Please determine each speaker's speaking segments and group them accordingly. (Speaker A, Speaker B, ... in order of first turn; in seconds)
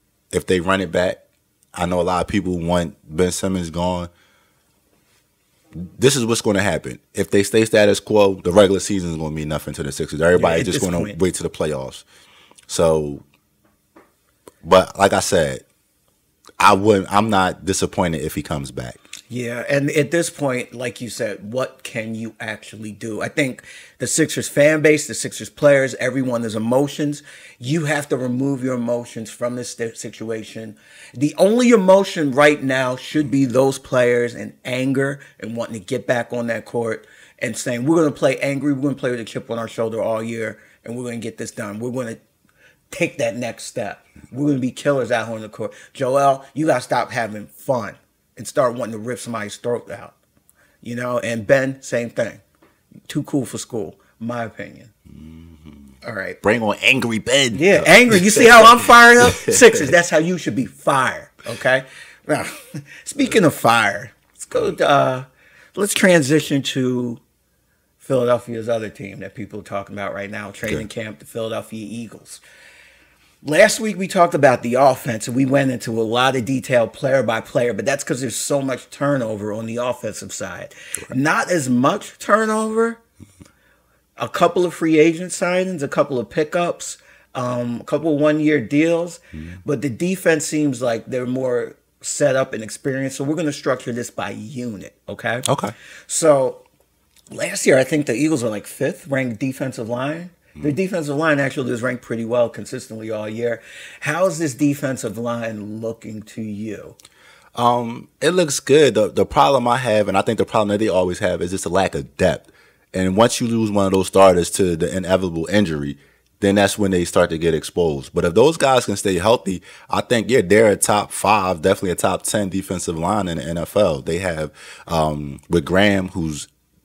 Speaker A: 0.3-1.2, 1.8-4.1, 5.8-12.1, 12.7-13.2, 14.6-15.6, 16.6-19.0, 55.1-55.6, 56.4-59.9, 95.5-95.7, 107.5-126.5
Speaker B: 10.3-11.2, 19.3-42.2, 42.9-50.1, 50.8-52.4, 53.1-54.9, 56.0-56.4, 57.5-67.2, 68.0-72.4, 73.4-83.0, 84.2-95.5, 96.1-96.7, 97.3-107.0